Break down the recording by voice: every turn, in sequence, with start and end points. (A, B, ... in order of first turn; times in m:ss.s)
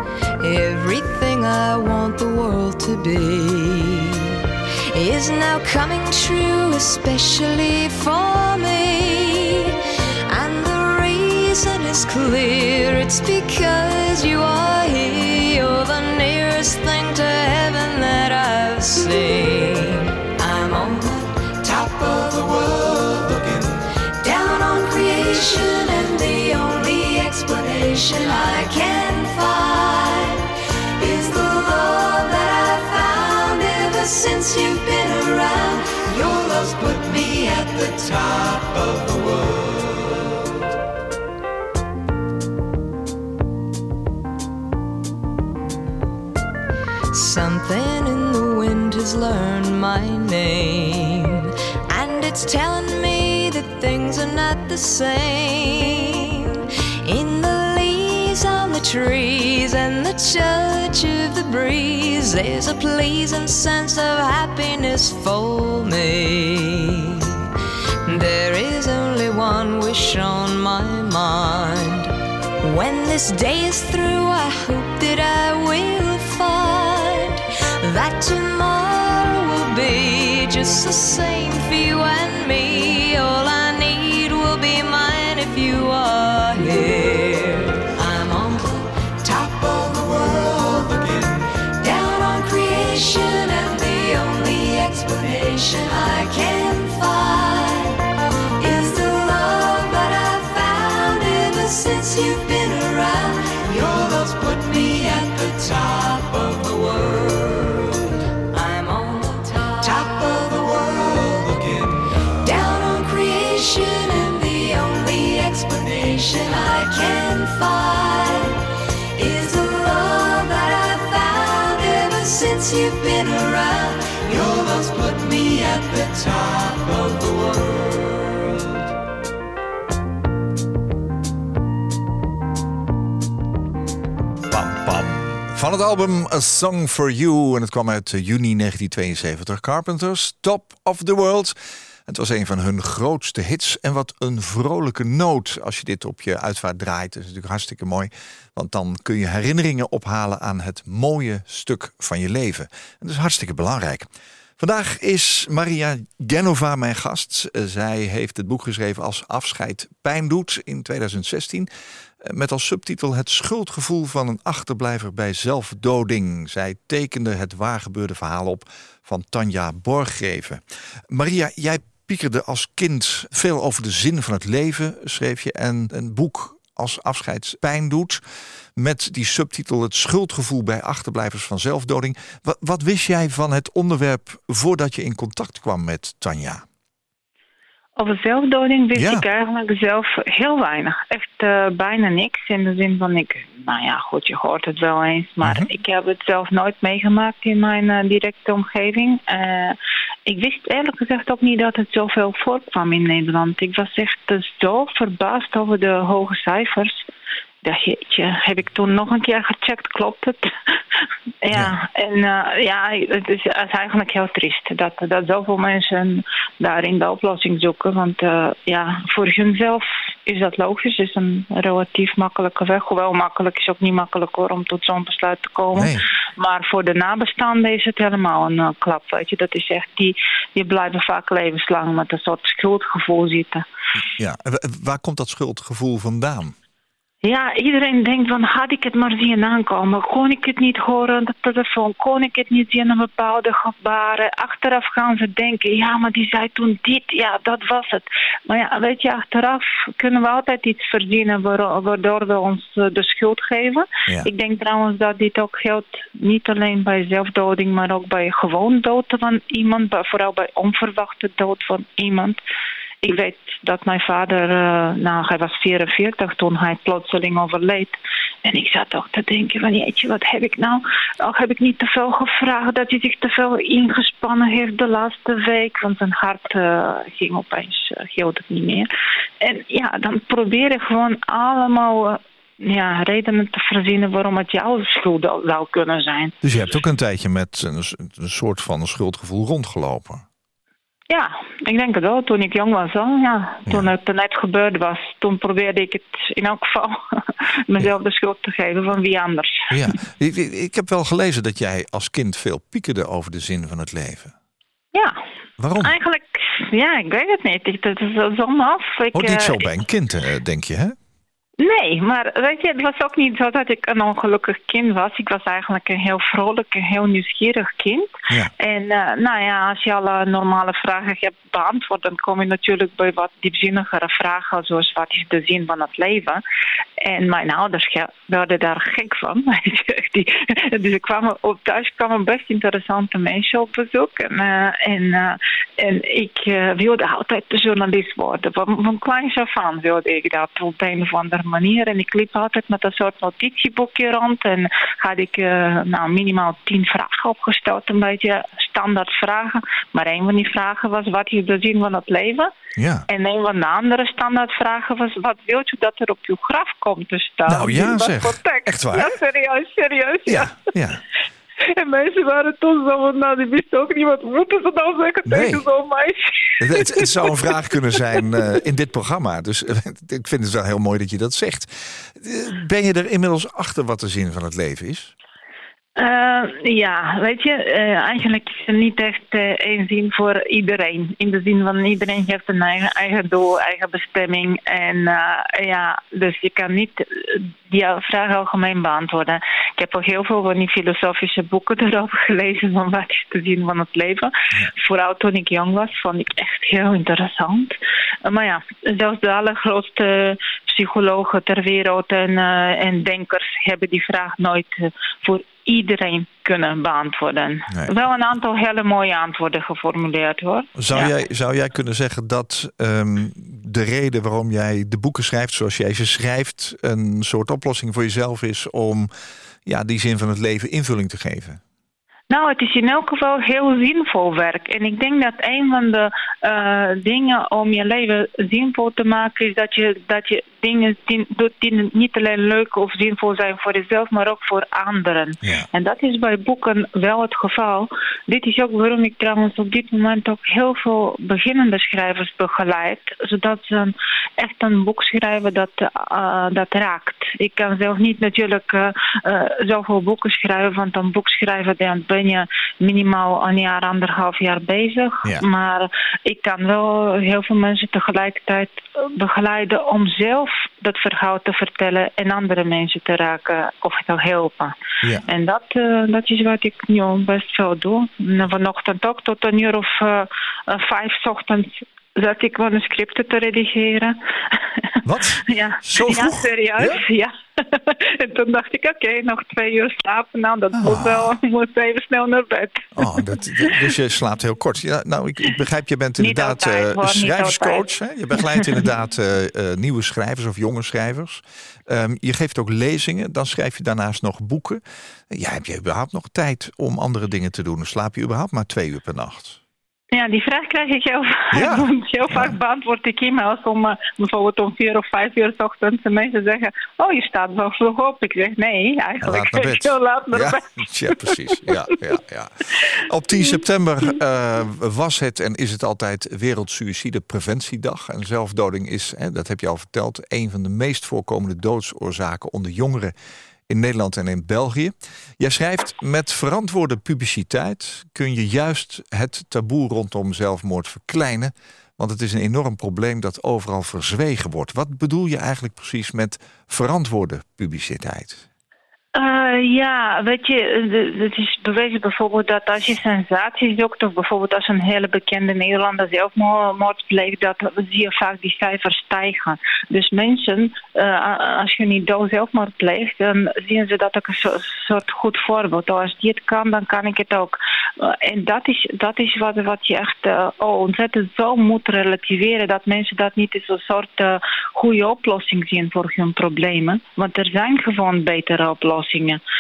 0:00.4-0:40.3 A
0:47.1-1:07.5 A
1:08.0-1:38.1 A
1:38.6-2:08.6 A
2:14.5-2:34.1 B
2:34.6-2:41.7 B
2:42.2-2:58.2 B
2:58.8-3:06.6 B
3:08.0-3:27.1 C
3:09.0-3:09.2 B
3:15.4-3:15.7 B
3:27.6-3:30.8 C
3:31.4-3:53.6 C
3:45.7-3:46.0 B
3:54.2-3:56.6 B
3:57.2-4:22.4 C
4:23.0-4:38.9 C
4:39.4-4:46.3 C
4:46.4-4:50.2 B
4:51.1-4:59.7 C
4:59.7-5:04.3 B
5:04.9-5:05.2 C
5:05.6-5:06.0 B
5:05.8-5:09.7 C
5:09.1-5:11.0 B
5:11.6-5:26.4 C
5:27.0-5:52.5 C
5:52.8-5:53.1 B
5:53.1-6:00.7 C
5:57.5-5:59.2 B
6:00.3-6:01.0 B
6:01.6-6:07.5 C
6:05.3-6:05.6 B
6:06.6-6:15.1 B
6:16.0-6:51.1 C
6:50.8-6:59.1 B
6:59.6-7:01.6 B
7:02.3-7:44.7 C
7:15.4-7:15.7 B
7:45.3-8:03.8 C
7:55.0-7:57.0 B
8:00.7-8:01.4 B
8:03.0-8:19.6 B
8:06.2-8:07.9 C
8:08.5-8:08.8 C
8:20.1-8:31.8 C
8:21.5-8:22.6 B
8:29.2-8:43.1 B
8:43.7-8:58.4 B
8:59.2-9:29.4 C